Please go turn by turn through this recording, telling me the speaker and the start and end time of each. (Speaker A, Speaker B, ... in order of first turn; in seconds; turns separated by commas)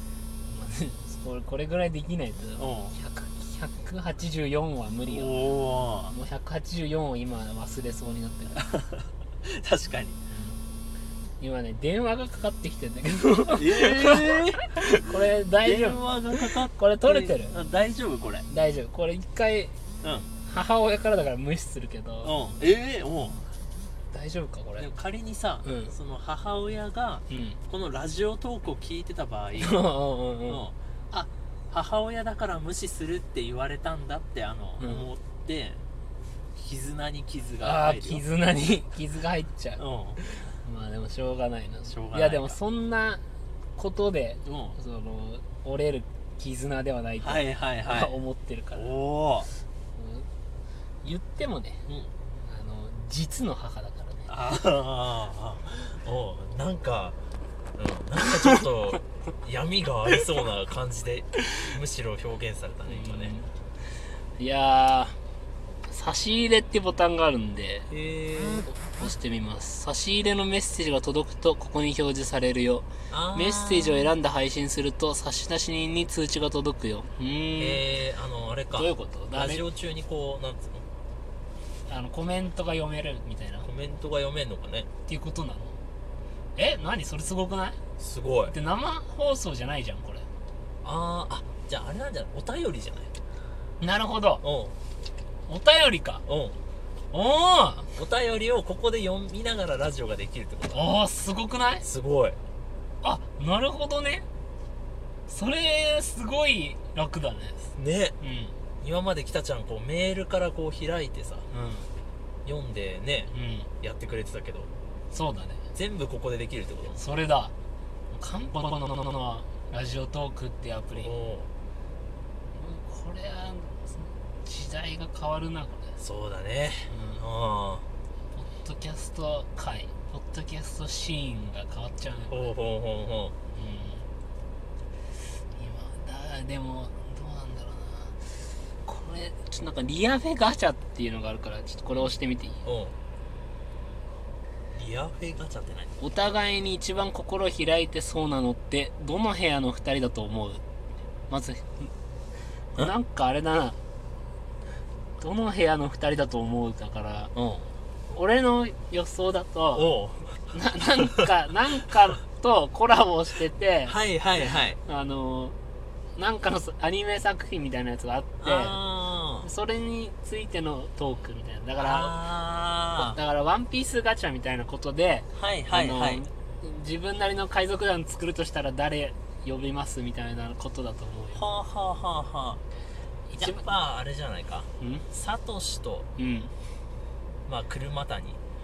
Speaker A: 0.5-5.5, Speaker B: 2.6-3.0, Speaker B: 5.1-6.2, Speaker A: 6.1-8.7, Speaker B: 8.6-10.2, Speaker A: 11.4-17.6, Speaker B: 13.5-18.5, Speaker A: 18.5-19.8, Speaker B: 20.0-20.3, Speaker A: 20.4-22.3, Speaker B: 22.2-23.4, Speaker A: 24.1-24.9, Speaker B: 24.8-29.8, Speaker A: 25.6-25.9, Speaker A: 27.3-27.6, Speaker A: 29.6-30.7, Speaker B: 30.5-35.8, Speaker A: 34.8-35.1, Speaker B: 36.6-38.2, Speaker A: 37.6-39.8, Speaker B: 39.8-40.2, Speaker A: 40.5-43.2, Speaker B: 41.9-42.6, Speaker A: 43.8-48.9, Speaker B: 44.5-44.8, Speaker B: 47.2-48.2, Speaker B: 48.8-49.5, Speaker A: 50.0-50.3, Speaker A: 51.0-51.8, Speaker B: 51.9-52.1, Speaker A: 52.5-54.3, Speaker B: 54.3-57.2, Speaker B: 57.8-63.4, Speaker A: 62.9-63.5, Speaker A: 64.4-65.2, Speaker A: 65.9-67.9, Speaker B: 67.9-69.1, Speaker A: 68.8-77.8, Speaker B: 73.1-74.2, Speaker B: 77.6-80.8, Speaker A: 78.7-79.6, Speaker A: 81.9-83.7, Speaker B: 83.6-84.9, Speaker A: 85.1-85.8, Speaker A: 86.6-87.8, Speaker B: 88.0-88.5, Speaker A: 88.5-90.3, Speaker B: 90.8-93.1, Speaker A: 93.8-94.4, Speaker B: 94.4-94.8, Speaker A: 95.5-96.2, Speaker B: 96.3-96.6, Speaker A: 97.1-97.9, Speaker B: 98.0-100.9, Speaker A: 100.7-101.9, Speaker B: 101.8-102.4, Speaker A: 103.0-104.2, Speaker A: 105.3-107.6, Speaker B: 107.8-108.2, Speaker A: 108.2-108.5, Speaker B: 108.8-111.5, Speaker A: 111.5-111.9, Speaker B: 112.5-114.7, Speaker A: 113.3-113.7, Speaker A: 115.1-115.6, Speaker B: 115.8-117.0, Speaker A: 116.9-117.5, Speaker A: 118.1-121.2, Speaker B: 121.0-121.5, Speaker A: 122.6-126.0, Speaker B: 126.0-127.9, Speaker A: 126.9-127.2, Speaker A: 128.3-132.5, Speaker B: 132.3-133.3, Speaker A: 133.5-134.1, Speaker A: 135.6-138.2, Speaker A: 138.8-142.6, Speaker B: 142.7-142.9, Speaker B: 144.7-146.0, Speaker A: 146.0-150.6, Speaker A: 151.3-151.9, Speaker A: 152.8-153.8, Speaker A: 155.2-157.3, Speaker B: 157.3-157.7, Speaker A: 158.1-159.9, Speaker B: 159.7-160.5, Speaker A: 160.5-165.6, Speaker B: 163.9-164.8, Speaker A: 166.2-168.8, Speaker B: 168.4-169.5, Speaker A: 169.4-172.2, Speaker B: 171.8-173.2, Speaker A: 173.0-181.4, Speaker B: 175.3-176.2, Speaker B: 181.3-182.6, Speaker A: 183.3-183.6, Speaker B: 183.4-186.1, Speaker A: 184.8-185.1, Speaker A: 186.2-186.5, Speaker B: 187.5-188.4